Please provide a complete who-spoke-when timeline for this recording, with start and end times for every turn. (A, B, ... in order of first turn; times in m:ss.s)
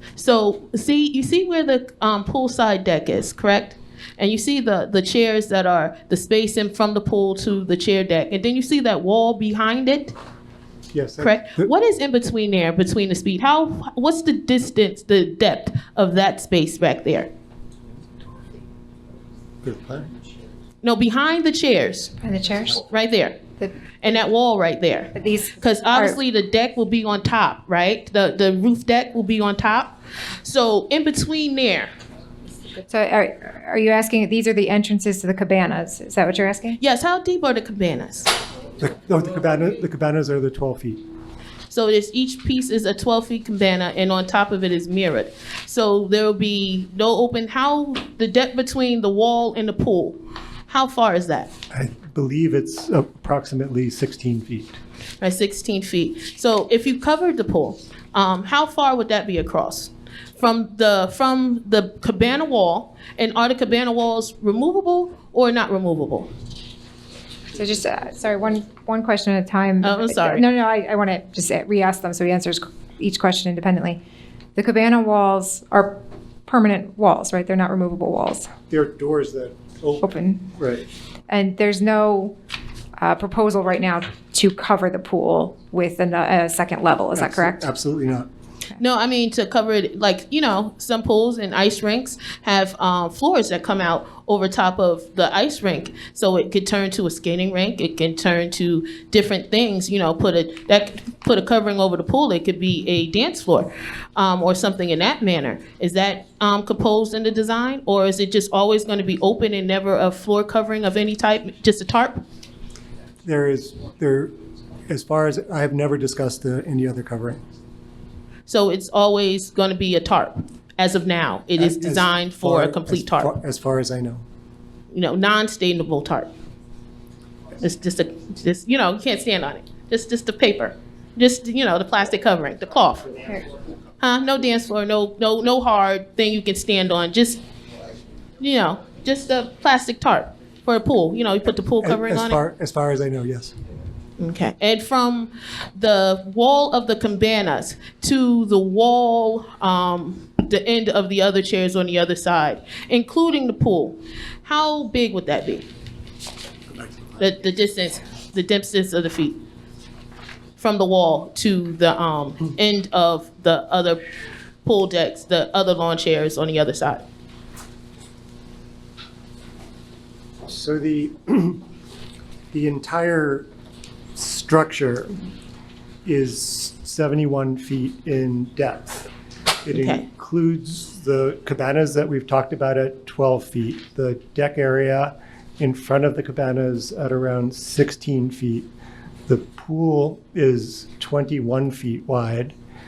0:00.2-0:10.1 A
0:10.9-0:11.7 B
0:11.2-0:17.3 A
0:19.6-0:20.1 B
0:20.8-0:22.1 A
0:22.2-0:22.8 C
0:22.7-0:23.4 A
0:24.0-0:31.9 A
0:25.1-0:26.2 C
0:32.8-0:36.8 C
0:36.8-0:38.3 A
0:38.8-0:41.0 B
0:41.7-0:51.5 A
0:51.7-0:54.8 B
0:55.2-1:06.3 A
1:07.5-1:14.0 C
1:09.8-1:10.4 A
1:14.6-1:18.5 C
1:18.7-1:20.8 B
1:20.0-1:20.4 C
1:21.3-1:22.3 C
1:23.0-1:27.6 C
1:27.1-1:28.3 B
1:28.8-1:52.2 A
1:53.2-1:54.3 B
1:54.9-1:57.4 B
1:58.5-2:03.3 A
2:01.6-2:04.2 B
2:04.9-2:06.3 A
2:07.6-2:13.3 A
2:14.0-2:17.4 A
2:18.4-2:22.4 A
2:21.8-2:23.5 B
2:24.2-2:35.7 A
2:37.2-2:39.4 A
2:40.6-2:44.0 A
2:44.6-2:47.0 A
2:50.5-2:51.6 B
2:52.5-2:53.5 B
2:54.1-2:55.1 B
2:56.0-2:59.1 B
2:59.6-3:08.7 B
2:59.7-3:00.0 A
3:09.3-3:12.5 B